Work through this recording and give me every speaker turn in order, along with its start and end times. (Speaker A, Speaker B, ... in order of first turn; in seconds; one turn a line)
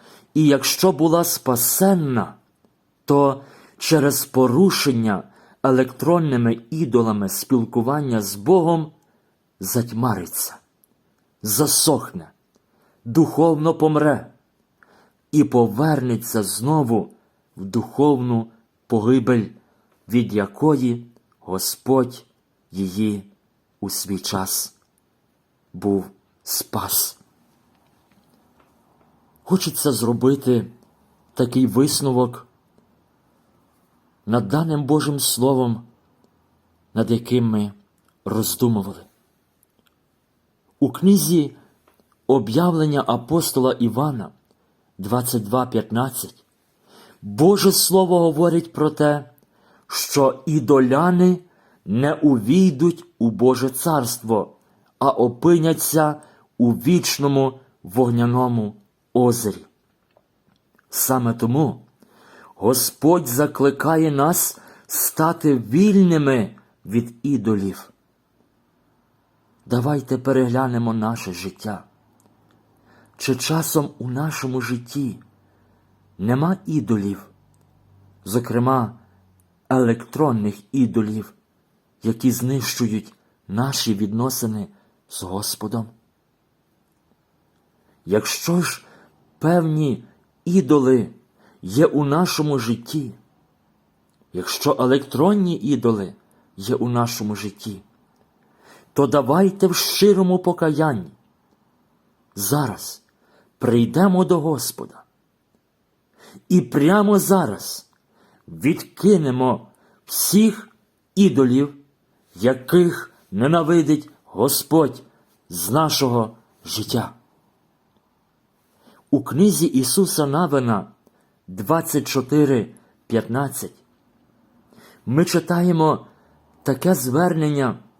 Speaker A: 0.3-2.4
Speaker A: 3.0-8.9
Speaker A: 9.6-10.6
Speaker A: 11.4-12.3
Speaker A: 13.1-14.3
Speaker A: 15.3-19.6
Speaker A: 20.1-24.8
Speaker A: 25.7-27.2
Speaker A: 29.4-30.7
Speaker A: 31.3-32.5
Speaker A: 34.3-35.9
Speaker A: 36.9-39.1
Speaker A: 40.8-41.6
Speaker A: 42.3-44.3
Speaker A: 45.0-46.4
Speaker A: 47.2-49.3
Speaker A: 49.9-59.7
Speaker A: 60.9-61.9
Speaker A: 62.6-67.9
Speaker A: 69.7-71.9
Speaker A: 73.2-75.2
Speaker A: 76.2-77.3
Speaker A: 78.2-79.0
Speaker A: 79.7-81.3
Speaker A: 82.0-85.9
Speaker A: 88.1-88.9
Speaker A: 89.4-93.2
Speaker A: 94.3-97.8
Speaker A: 98.9-101.2
Speaker A: 102.3-103.0
Speaker A: 103.6-105.0
Speaker A: 106.5-107.9
Speaker A: 108.5-111.8
Speaker A: 112.3-117.2
Speaker A: 119.1-120.9
Speaker A: 121.5-123.8
Speaker A: 125.0-126.1
Speaker A: 126.6-127.8